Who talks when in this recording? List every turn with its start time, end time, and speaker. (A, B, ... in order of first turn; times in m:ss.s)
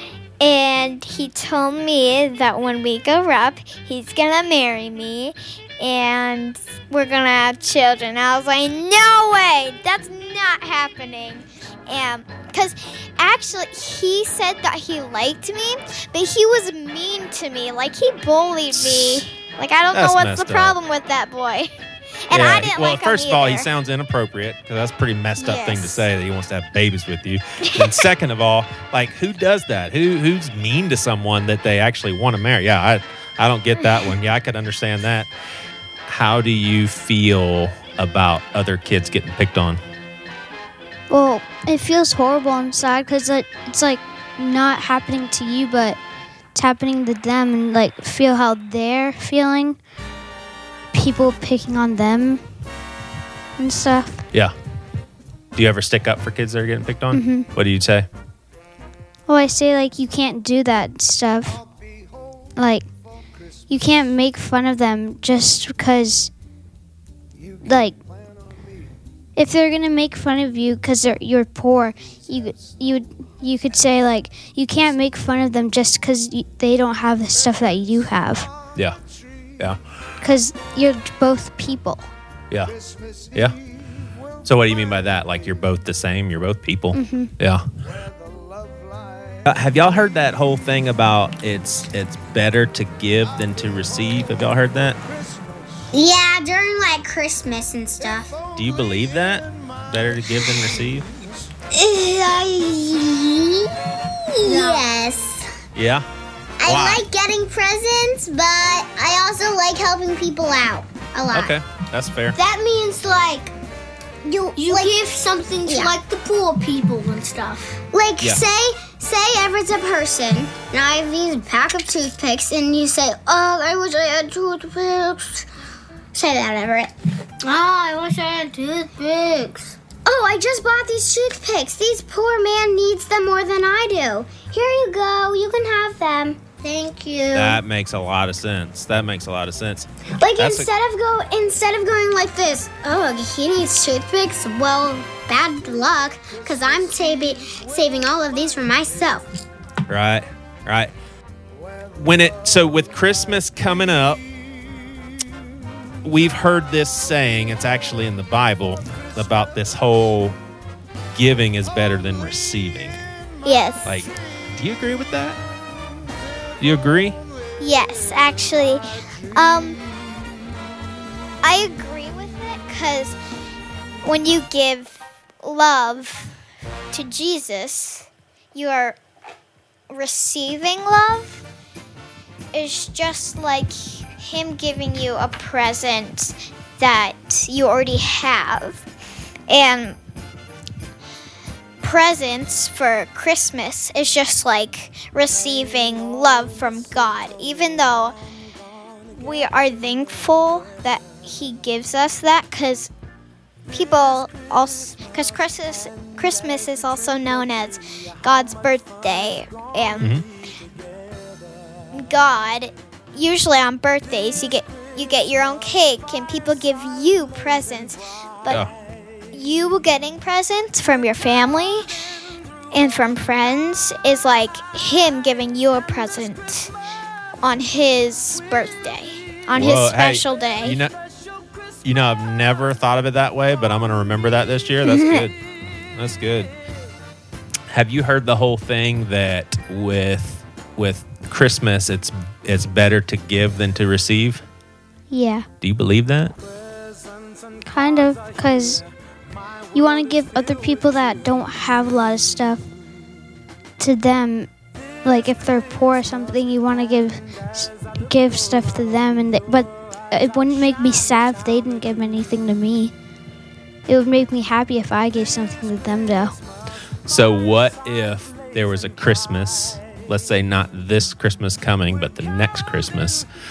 0:00.4-0:21.7 A
0:18.7-0:19.2 B
0:19.9-0:20.7 B
0:22.3-0:23.7 A
0:22.3-0:35.3 B
0:25.4-0:26.0 A
0:33.8-0:34.1 A
0:36.1-0:39.8 B
0:41.1-0:46.0 C
0:46.6-0:49.8 C
0:50.9-0:52.4 C
0:53.6-0:54.3 C
0:55.6-0:58.1 B
0:57.1-0:57.5 C
0:59.3-1:01.6 C
1:02.6-1:02.9 C
1:03.7-1:06.3 C
1:07.6-1:08.0 C
1:09.4-1:18.5 C
1:20.2-1:22.1 C
1:24.4-1:27.6 B
1:26.9-1:27.3 C
1:29.4-1:35.0 B
1:35.9-1:38.4 D
1:38.6-1:41.1 B
1:41.7-1:45.4 D
1:44.4-1:44.9 E
1:45.7-1:46.1 B
1:46.6-1:51.6 D
1:46.6-1:47.0 B
1:51.3-1:52.4 B
1:52.4-1:53.5 D
1:53.0-1:53.5 E
1:54.2-1:55.0 D
1:54.6-1:57.8 E
1:55.6-1:56.0 D
1:57.9-2:05.4 D
2:06.1-2:06.9 D
2:07.4-2:09.8 E
2:10.0-2:16.6 D
2:16.6-2:17.6 E
2:17.3-2:20.7 B
2:20.2-2:29.3 D
2:29.9-2:30.9 B
2:32.0-2:34.2 B
2:36.0-2:40.4 B
2:41.1-2:43.0 B
2:43.4-2:44.0 A
2:43.8-2:45.4 B
2:46.6-2:47.2 B
2:47.6-2:48.8 A
2:49.3-2:49.8 A
2:51.4-2:53.2 A
2:54.0-2:56.3 A
2:56.9-2:59.0 A
2:59.9-3:01.4 A
3:02.5-3:08.8 A
3:09.5-3:10.0 A
3:11.8-3:18.2 A
3:19.1-3:22.9 A
3:23.7-3:30.1 A
3:30.0-3:30.2 B
3:31.9-3:38.6 A
3:39.3-3:41.9 A
3:42.7-3:46.7 A
3:47.4-3:50.8 A
3:49.6-3:50.9 B
3:51.8-3:55.4 B
3:54.8-3:55.3 A
3:56.0-3:56.5 B
3:57.7-4:04.4 B
4:05.1-4:05.5 C
4:05.6-4:06.3 B
4:07.6-4:08.8 C
4:09.7-4:12.7 C
4:13.8-4:14.5 C
4:15.0-4:22.9 C
4:23.9-4:26.3 C
4:27.0-4:33.3 B